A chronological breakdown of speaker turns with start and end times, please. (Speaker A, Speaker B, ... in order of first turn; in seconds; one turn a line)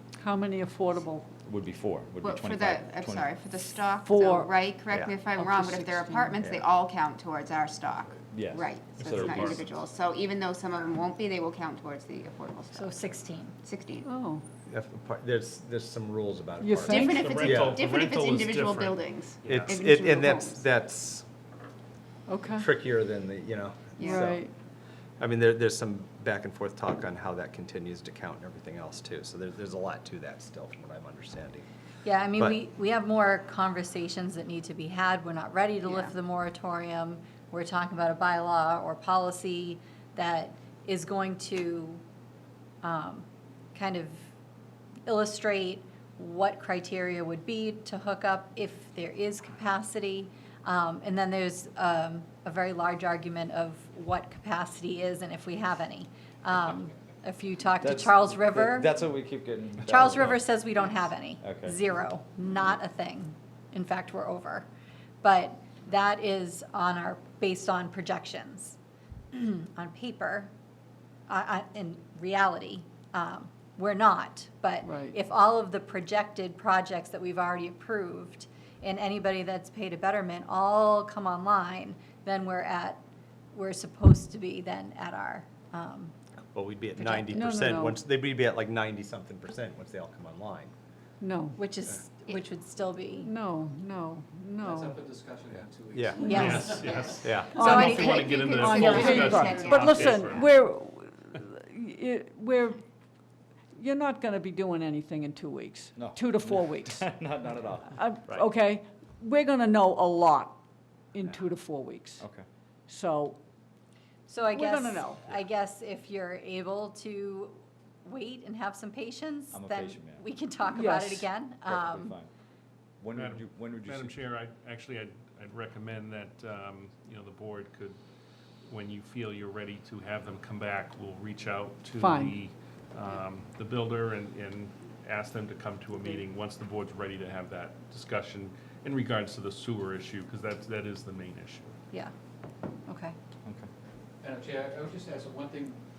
Speaker A: 0.2-1.3
Speaker B: 1.4-3.3
Speaker C: 2.2-13.0
Speaker A: 4.0-4.6
Speaker A: 5.2-6.4
Speaker B: 8.3-9.6
Speaker D: 9.0-9.6
Speaker E: 12.7-13.6
Speaker C: 13.6-14.1
Speaker A: 14.0-14.4
Speaker F: 14.7-17.8
Speaker A: 16.6-17.2
Speaker C: 16.8-20.6
Speaker D: 17.1-19.7
Speaker F: 19.4-21.2
Speaker A: 22.3-22.7
Speaker F: 22.5-24.4
Speaker C: 24.0-24.2
Speaker A: 24.0-24.5
Speaker F: 25.2-31.6
Speaker E: 32.0-42.0
Speaker E: 42.8-44.3
Speaker E: 45.0-59.0
Speaker B: 57.8-60.4
Speaker E: 59.9-64.7
Speaker B: 61.4-61.7
Speaker E: 65.2-68.8
Speaker E: 69.3-70.5
Speaker E: 71.3-86.2
Speaker A: 74.8-75.1
Speaker F: 86.5-90.7
Speaker E: 86.9-87.5
Speaker A: 87.3-88.0
Speaker A: 91.2-91.6
Speaker E: 91.5-93.3
Speaker A: 93.2-95.0
Speaker G: 94.6-97.2
Speaker F: 95.9-96.5
Speaker E: 96.2-97.0
Speaker D: 96.2-100.5
Speaker F: 97.2-98.0
Speaker A: 97.5-97.9
Speaker E: 97.7-99.7
Speaker C: 98.1-100.4
Speaker A: 98.5-102.8
Speaker G: 99.0-99.3
Speaker A: 103.7-107.1
Speaker B: 105.9-108.0
Speaker A: 107.9-110.6
Speaker A: 111.1-112.3
Speaker B: 112.2-112.4
Speaker A: 112.9-113.4
Speaker E: 114.3-122.2
Speaker A: 114.5-115.2
Speaker B: 119.5-120.2
Speaker A: 120.7-121.3
Speaker B: 121.7-122.3
Speaker B: 123.0-124.2
Speaker D: 123.1-128.0
Speaker D: 128.7-141.7
Speaker A: 132.0-132.4
Speaker E: 142.9-143.2
Speaker G: 144.2-145.8